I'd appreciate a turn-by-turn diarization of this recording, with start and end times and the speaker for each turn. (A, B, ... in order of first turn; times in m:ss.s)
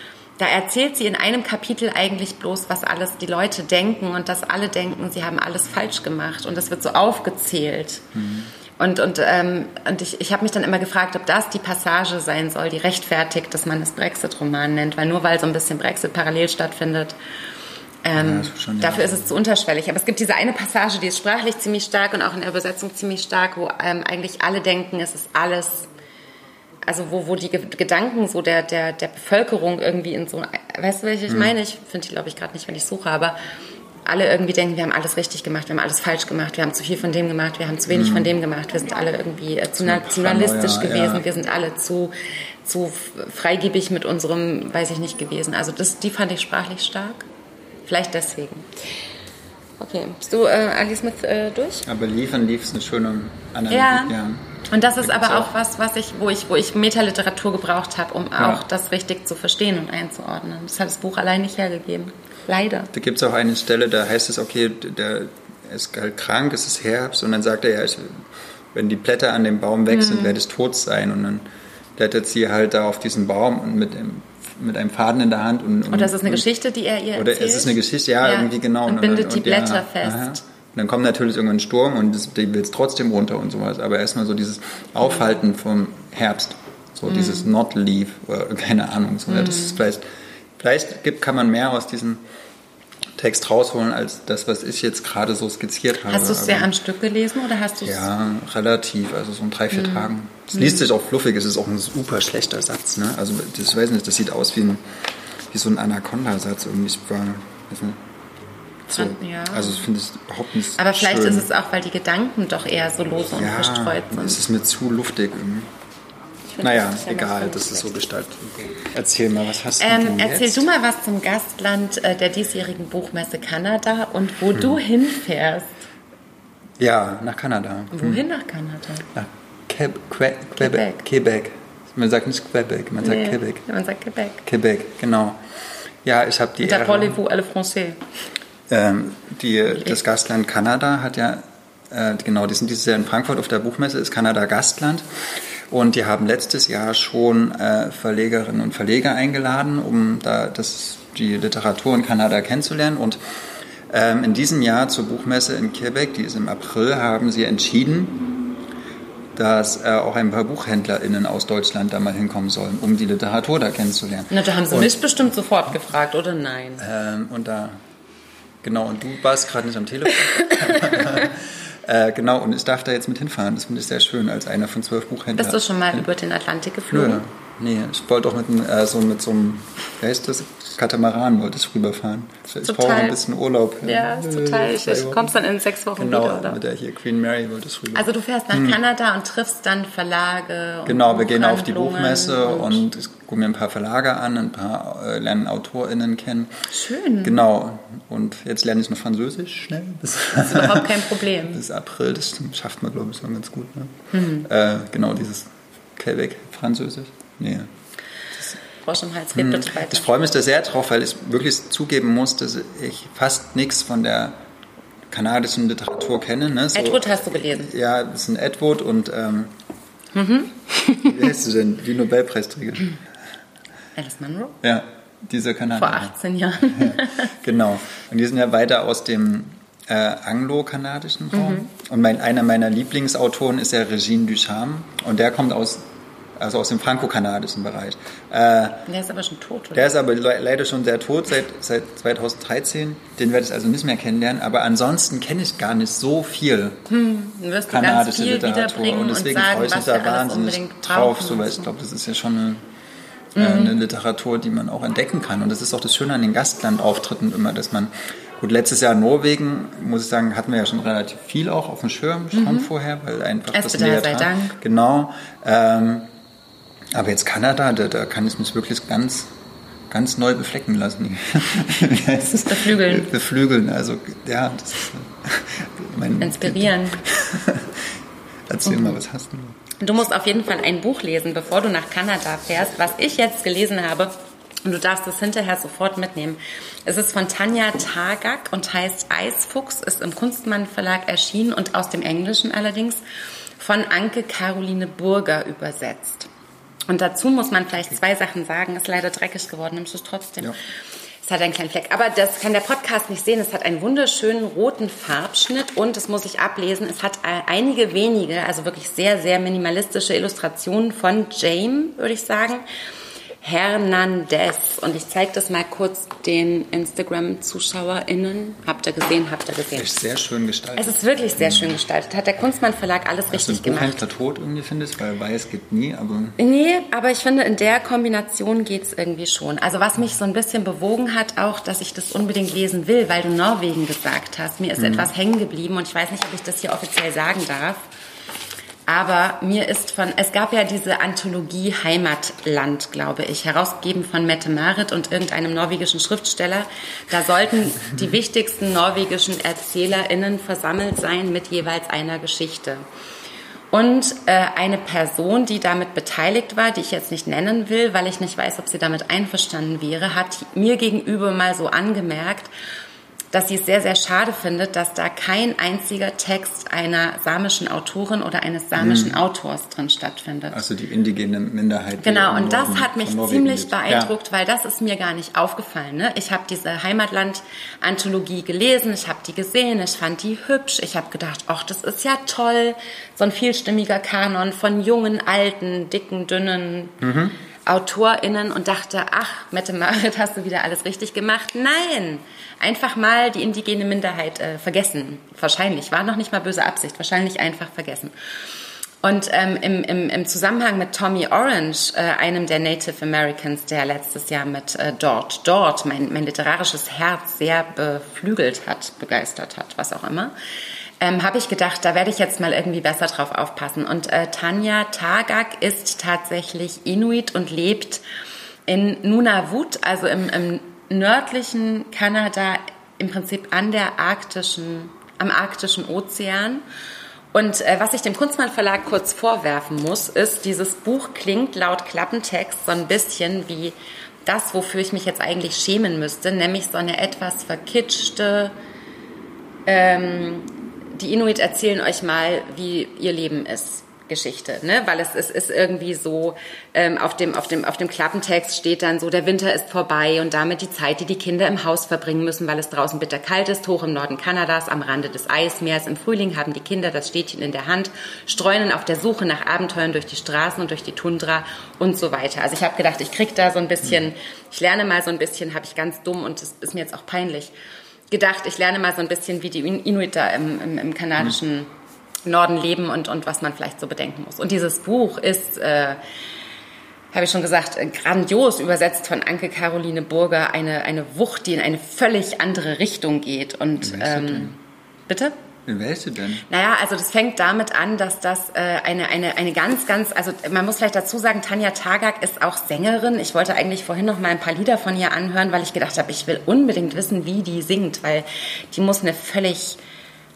0:00.4-0:08.0 A
0:08.1-0:08.5 B
0:08.8-0:17.2 A
0:18.0-0:25.9 A
0:18.2-0:19.3 B
0:26.8-0:33.4 A
0:34.0-0:42.1 A
0:37.9-0:38.3 B
0:39.8-0:41.2 B
0:42.6-0:47.3 A
0:47.9-0:48.7 A
0:49.8-0:51.8 A
0:51.8-0:55.5 B
0:53.7-0:54.1 A
0:54.7-1:02.9 A
0:58.4-0:58.6 B
1:02.9-1:11.4 B
1:09.9-1:10.4 A
1:12.0-1:16.4 B
1:15.9-1:20.4 A
1:17.1-1:30.0 B
1:27.1-1:27.4 A
1:29.3-1:29.8 A
1:30.6-1:32.2 B
1:33.2-1:36.7 B
1:36.1-1:38.1 A
1:37.8-1:44.8 B
1:39.7-1:40.0 A
1:45.5-1:48.0 B
1:48.8-1:51.5 B
1:48.9-1:49.8 A
1:50.8-1:54.4 A
1:53.3-1:55.7 B
1:56.5-1:58.0 A
1:56.6-2:00.7 B
1:59.8-2:05.8 A
2:06.8-2:08.2 B
2:07.9-2:09.1 A
2:09.1-2:13.6 B
2:10.6-2:11.0 A
2:13.0-2:14.4 A
2:14.4-2:15.4 B
2:16.0-2:17.2 B
2:16.6-2:18.0 A
2:18.7-2:25.0 B
2:25.7-2:33.2 B
2:33.9-2:38.3 B
2:39.4-2:45.1 B
2:44.3-2:46.8 A
2:46.8-2:47.8 B
2:48.6-2:56.1 B
2:50.4-2:51.0 A
2:55.4-2:57.2 A
2:56.9-3:05.3 B
3:02.6-3:03.2 A
3:03.8-3:06.6 A
3:06.0-3:08.8 B
3:07.9-3:12.8 A
3:10.8-3:16.5 B
3:16.7-3:17.4 A
3:17.2-3:27.7 B
3:20.4-3:21.6 A
3:24.1-3:24.5 A
3:28.6-3:30.1 A
3:29.3-3:34.4 B
3:35.1-3:39.5 B
3:36.7-3:37.7 A
3:40.1-3:41.3 A
3:41.0-3:42.9 B
3:44.0-3:44.6 A
3:44.6-3:55.8 B
3:45.7-3:47.3 A
3:51.3-3:51.7 A
3:56.4-3:58.9 B
3:58.9-3:59.9 A
3:59.7-4:06.8 B
4:06.9-4:11.7 A
4:07.7-4:12.6 B
4:13.4-4:13.8 A
4:13.4-4:26.1 B
4:22.3-4:22.7 A
4:23.5-4:24.6 A
4:26.9-4:29.3 B
4:29.9-4:38.0 B
4:32.4-4:33.1 A
4:36.2-4:37.0 A
4:38.5-4:39.6 B
4:38.6-4:39.0 A
4:39.8-4:53.0 A
4:53.6-4:56.3 A
4:56.9-5:00.6 A
5:01.2-5:12.6 A
5:13.4-5:20.0 A
5:19.7-5:21.8 B
5:20.8-5:24.0 A
5:23.3-5:26.4 B
5:26.4-5:37.8 A
5:34.8-5:35.1 B
5:38.9-5:52.8 A
5:53.7-6:02.5 A
6:03.3-6:10.6 A
6:08.8-6:09.2 B
6:10.5-6:14.1 B
6:12.0-6:27.0 A
6:27.0-6:27.3 B
6:27.7-6:38.1 A
6:39.0-6:50.3 A
6:51.0-6:58.0 A
6:58.7-7:06.6 A
7:07.3-7:18.5 A
7:19.6-7:47.5 A
7:48.1-7:51.7 A
7:52.2-7:56.0 A
7:57.1-8:04.6 A
8:03.8-8:04.6 B
8:05.1-8:05.3 A
8:05.6-8:06.4 B
8:06.5-8:19.8 A